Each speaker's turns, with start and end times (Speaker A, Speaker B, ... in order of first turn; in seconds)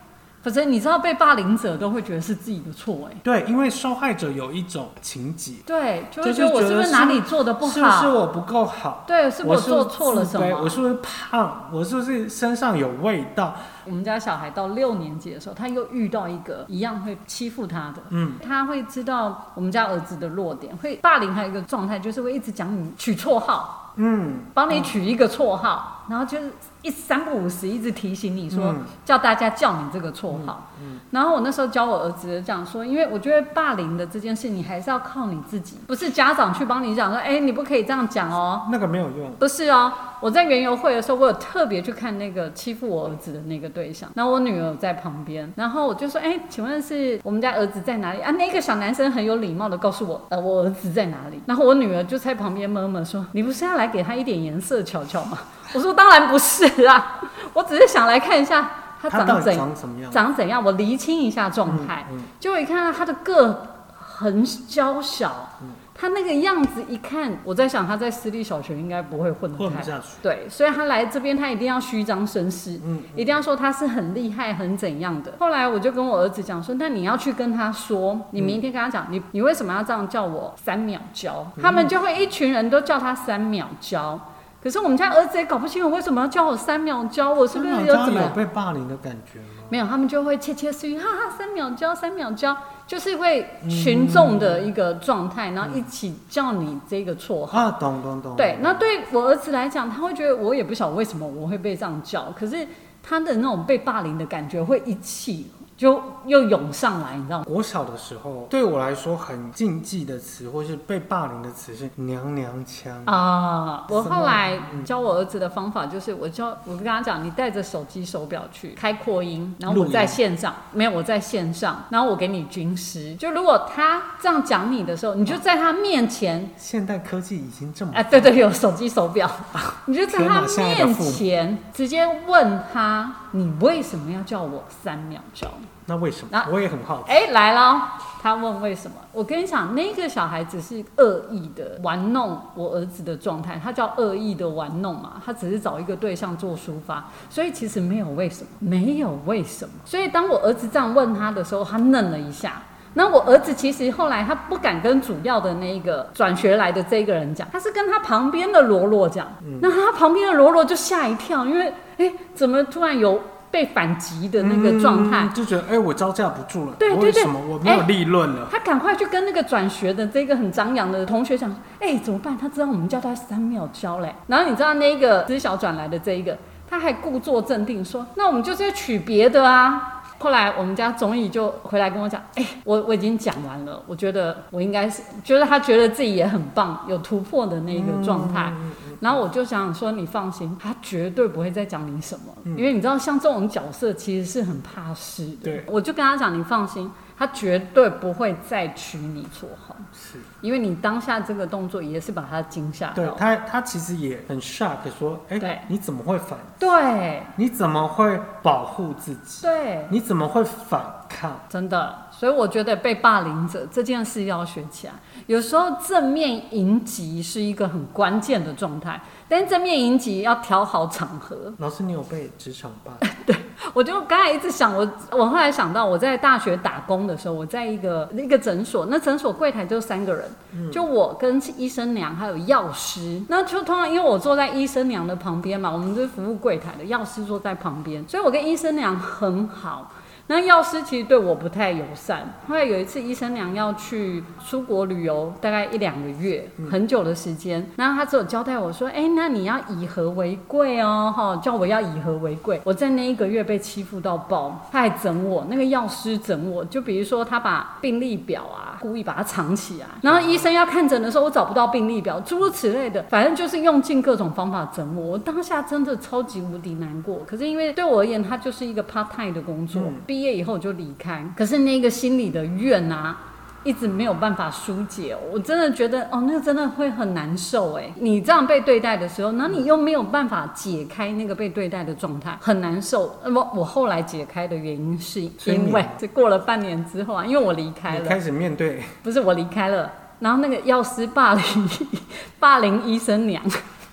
Speaker A: 0.4-3.2, 5.7-8.2, 9.1-10.8, 13.9-23.9, 24.6-38.7, 39.4-88.4, 89.7-97.7, 98.4-107.5, 113.1-126.5, 127.9-135.7, 137.1-165.3, 166.8-167.9, 168.5-199.9, 200.4-203.2, 205.4-205.7, 206.6-207.3, 209.4-209.9, 211.5-221.6, 223.0-288.2, 289.0-293.6
Speaker B: 3.2-5.7, 6.2-13.7, 18.1-18.4, 24.0-25.0, 28.5-28.9, 30.3-31.0, 38.6-39.4, 59.1-60.2, 61.7-62.3, 69.5-70.2, 72.8-73.4, 78.4-78.6, 81.6-82.0, 87.5-89.8, 93.6-94.7, 95.6-95.9, 97.5-98.9, 107.5-113.2, 113.9-114.9, 119.7-120.2, 126.6-128.5, 129.7-131.2, 135.9-137.2, 159.4-159.7, 164.4-168.6, 187.7-189.2, 192.4-192.7, 199.9-200.3, 202.9-206.8, 207.4-211.5, 221.6-223.1, 230.5-230.9, 260.1-260.5, 269.7-270.0, 285.4-286.0, 287.9-289.0